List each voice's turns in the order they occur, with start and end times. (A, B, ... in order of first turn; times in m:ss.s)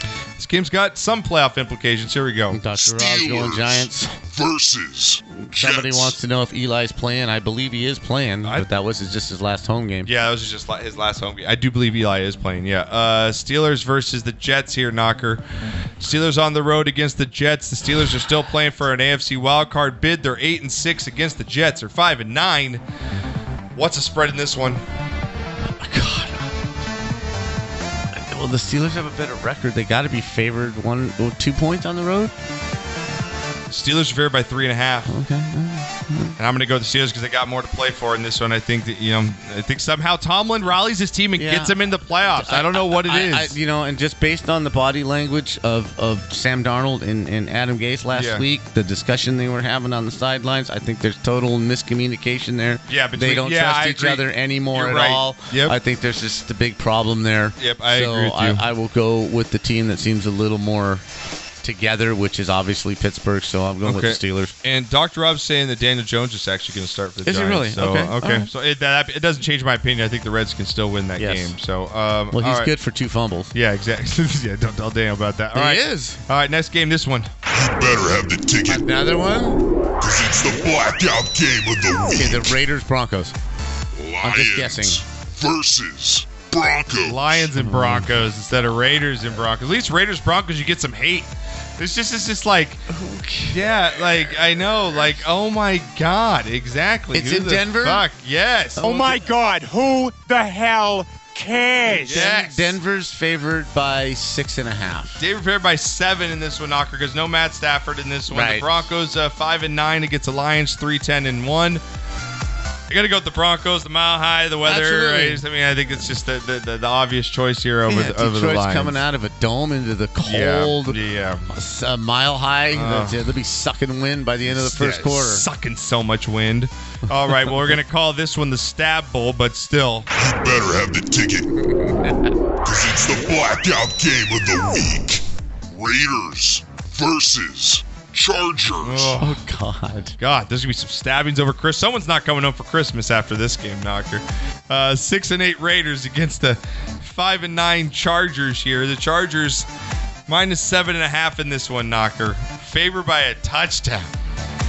0:00.4-0:02.6 A
0:02.5-0:04.1 B
0:02.7-0:06.2 C
0:05.3-0:10.1 B
0:10.0-0:15.4 A
0:16.0-0:22.8 A
0:23.7-0:24.8 A
0:25.8-0:26.5 B
0:28.1-0:32.3 B
0:33.7-0:35.1 A
0:35.1-0:36.4 B
0:36.4-0:43.6 A
0:41.4-0:41.8 B
0:42.3-1:01.0 B
0:48.1-0:48.4 A
0:52.9-0:55.8 A
0:57.6-0:58.6 A
1:01.6-1:04.5 B
1:03.8-1:12.7 A
1:07.2-1:08.5 B
1:11.2-1:11.5 B
1:12.3-1:13.5 B
1:13.5-1:17.3 A
1:15.5-1:16.2 B
1:17.5-1:18.8 C
1:18.7-1:19.6 B
1:20.0-1:22.6 C
1:22.1-1:23.3 B
1:23.9-1:27.5 C
1:24.2-1:25.0 B
1:27.0-1:32.8 A
1:27.6-1:28.1 B
1:32.9-1:33.7 B
1:33.5-1:39.2 A
1:37.1-1:38.0 B
1:38.8-1:39.2 B
1:38.8-1:42.1 D
1:41.8-1:42.8 A
1:41.8-1:45.2 B
1:45.2-1:51.8 A
1:48.3-1:48.7 B
1:52.9-1:59.0 A
1:54.6-1:55.4 B
1:57.9-2:05.4 B
2:00.2-2:01.4 A
2:02.7-2:03.2 A
2:04.4-2:10.1 A
2:10.1-2:11.7 C
2:11.7-2:12.1 B
2:12.6-2:19.1 C
2:18.8-2:19.4 A
2:19.2-2:20.2 B
2:20.2-2:29.7 A
2:30.3-2:34.1 A